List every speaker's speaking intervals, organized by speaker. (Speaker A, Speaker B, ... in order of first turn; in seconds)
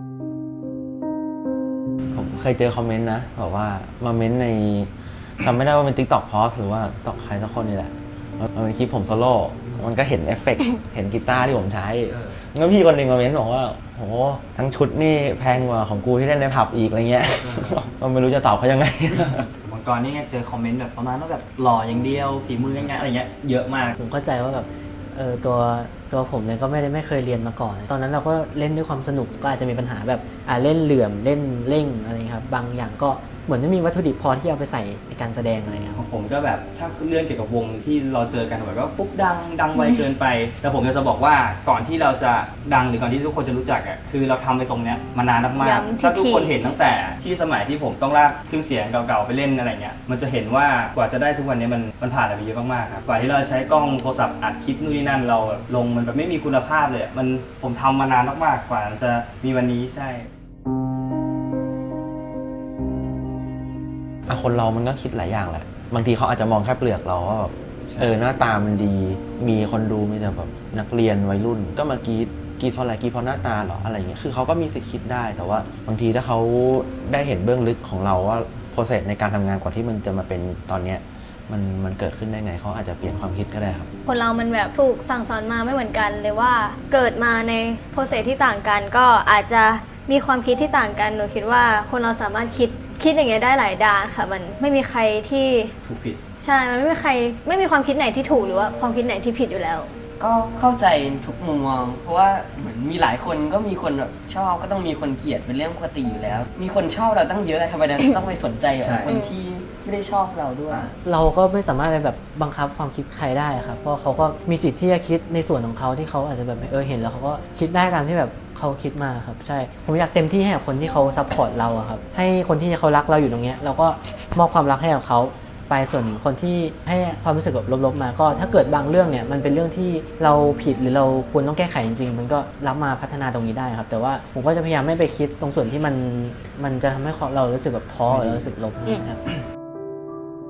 Speaker A: 2.1-19.5, 64.3-83.9
Speaker B: 19.6-24.0, 36.0-60.3, 67.8-68.2, 95.8-96.2, 108.8-109.1, 138.1-138.4
Speaker C: 24.0-36.0, 111.0-139.2
Speaker D: 39.8-40.0, 45.6-46.5, 84.1-95.7, 96.4-99.9, 109.1-109.3
Speaker E: 100.2-110.9